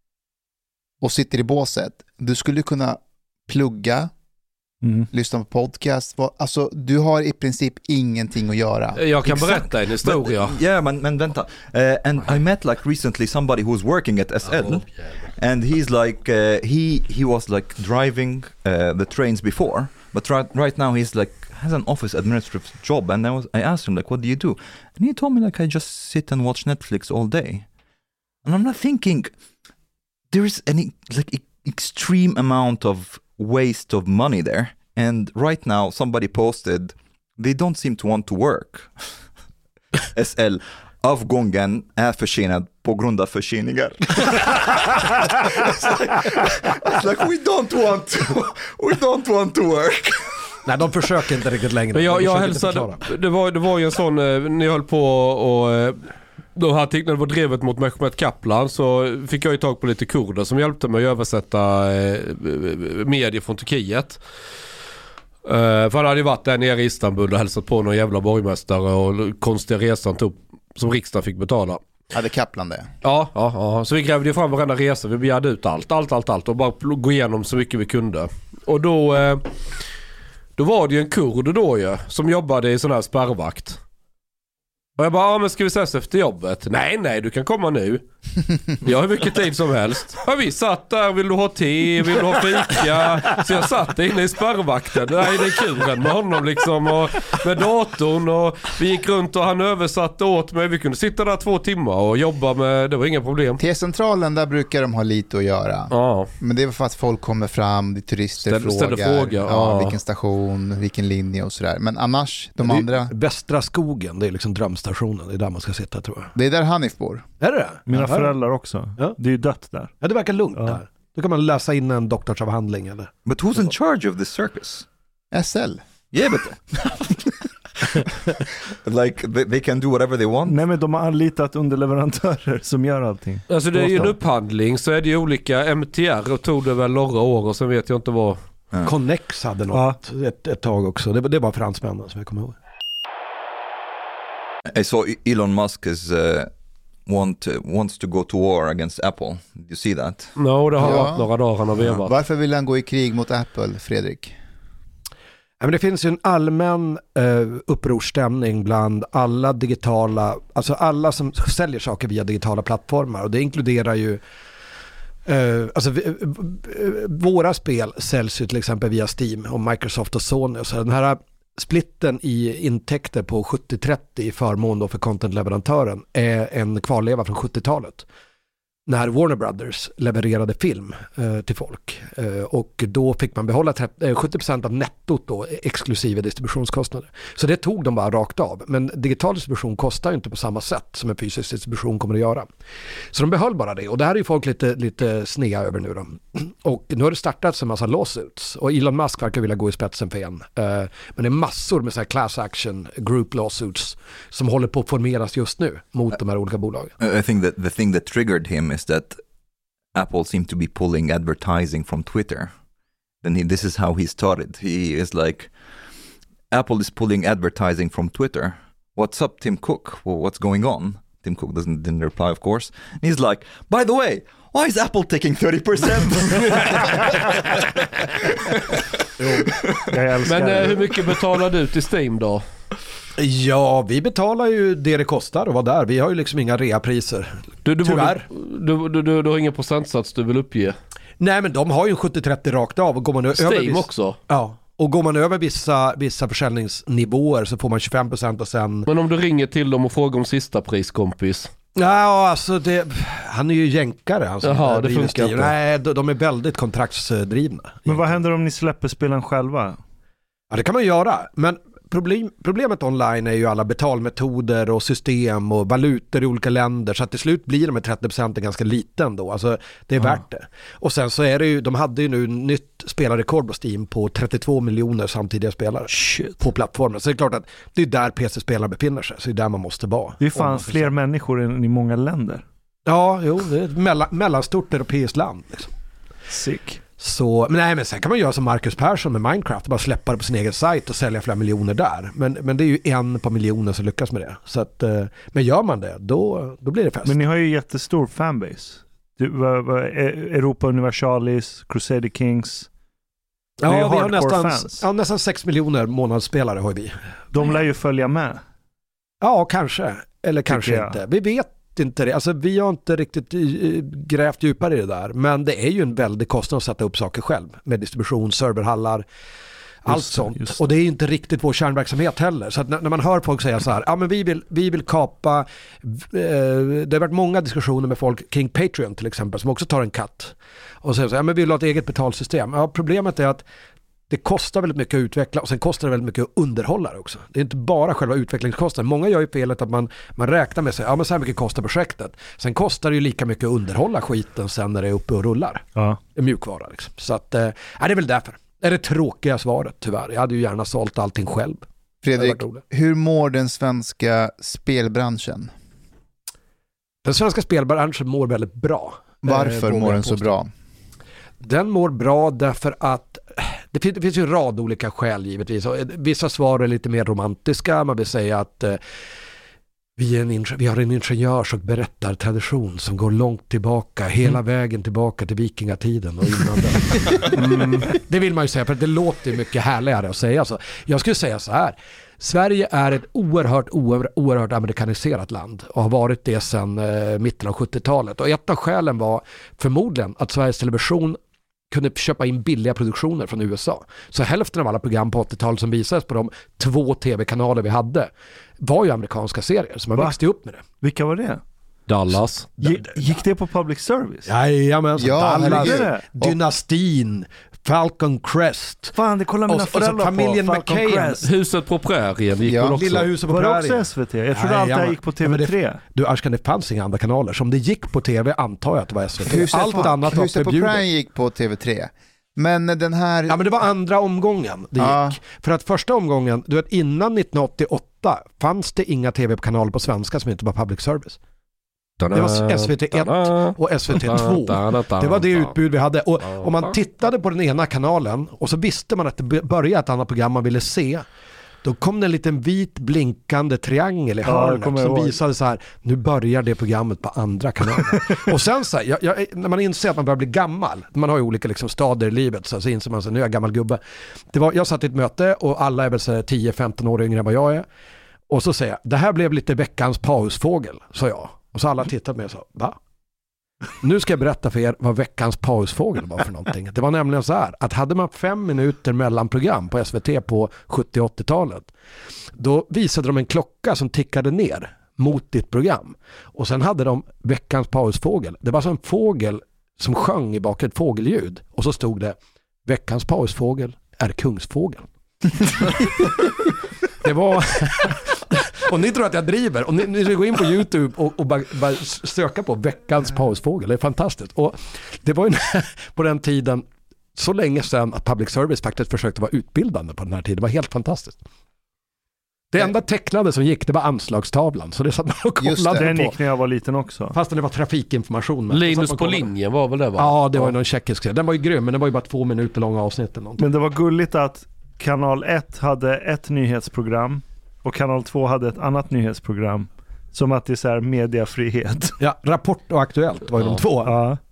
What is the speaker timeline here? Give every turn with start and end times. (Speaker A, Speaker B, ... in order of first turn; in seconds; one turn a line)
Speaker A: 1.0-4.1
Speaker B: 4.8-5.1
Speaker A: 5.1-9.0
Speaker C: 8.9-10.6
Speaker D: 9.3-27.7
Speaker D: 28.4-29.3
Speaker D: 30.3-39.0
Speaker D: 40.1-50.6
Speaker E: 50.6-53.0
Speaker C: 51.9-64.2
Speaker C: 65.4-71.8
Speaker A: 72.1-72.9
Speaker C: 73.0-79.5
Speaker C: 80.6-83.8
Speaker C: 85.0-88.0
Speaker C: 88.8-103.6
Speaker A: 103.6-113.1
Speaker C: 105.9-106.3
Speaker C: 108.4-110.0
Speaker E: 112.6-116.3
Speaker A: 116.3-117.2
Speaker E: 117.4-118.3
Speaker B: 117.9-120.0
Speaker E: 120.0-123.1
Speaker D: 123.2-124.8
Speaker A: 125.3-125.8
Speaker D: 126.1-130.6
Speaker B: 130.4-134.2
Speaker C: 133.5-138.4
Speaker E: 138.8-142.6
Speaker D: 144.7-146.5
Speaker D: 147.1-150.3
Speaker C: 150.4-152.1
Speaker A: 150.8-154.3
Speaker E: 155.6-164.2
Speaker E: 165.3-178.1
Speaker E: 178.9-192.5
Speaker E: 193.1-206.9
Speaker D: 207.0-209.2
Speaker D: 209.9-212.5
Speaker D: 213.2-215.5
Speaker D: 216.5-228.7
Speaker D: 229.5-230.0
Speaker B: 229.9-231.0
Speaker C: 230.2-232.4
Speaker E: 233.2-238.2
Speaker C: 237.7-240.7
Speaker E: 241.2-248.9
Speaker C: 243.3-244.2
Speaker C: 248.9-251.5
Speaker E: 251.8-258.1
Speaker C: 254.4-255.5
Speaker B: 257.8-259.8
Speaker E: 260.5-280.9
Speaker B: 275.9-276.4
Speaker B: 280.2-282.4
Speaker E: 282.9-285.7
Speaker B: 286.3-286.8
Speaker E: 287.0-297.2
Speaker B: 297.0-302.7
Speaker E: 303.6-307.0
Speaker B: 303.6-304.9
Speaker B: 307.3-308.4
Speaker E: 309.2-319.0
Speaker B: 310.5-311.0
Speaker E: 319.8-333.4
Speaker B: 319.9-320.6
Speaker E: 334.1-351.6
Speaker A: 352.0-355.5
Speaker E: 352.1-352.6
Speaker E: 357.0-360.3
Speaker A: 359.2-360.5
Speaker E: 361.4-368.8
Speaker E: 370.0-391.2
Speaker E: 391.7-398.1
Speaker E: 398.6-400.6
Speaker B: 400.8-401.4
Speaker C: 401.9-402.5
Speaker B: 402.6-404.3
Speaker E: 404.2-408.9
Speaker A: 405.0-406.4
Speaker B: 405.4-406.1
Speaker B: 408.9-411.3
Speaker E: 409.5-411.2
Speaker C: 411.2-413.0
Speaker A: 412.4-412.8
Speaker E: 412.6-420.8
Speaker B: 413.3-415.8
Speaker A: 419.2-423.4
Speaker E: 423.3-431.2
Speaker A: 424.8-425.2
Speaker C: 432.0-435.5
Speaker E: 432.1-441.0
Speaker C: 436.3-436.7
Speaker E: 441.6-453.8
Speaker B: 444.2-445.2
Speaker E: 454.3-457.6
Speaker E: 458.3-462.8
Speaker E: 463.8-471.7
Speaker E: 472.4-486.3
Speaker E: 487.0-501.2
Speaker E: 502.5-506.1
Speaker A: 505.4-505.9
Speaker B: 505.7-507.2
Speaker E: 507.1-509.3
Speaker C: 508.5-510.5
Speaker E: 510.0-513.5
Speaker B: 513.4-522.0
Speaker E: 522.0-524.0
Speaker B: 523.8-524.2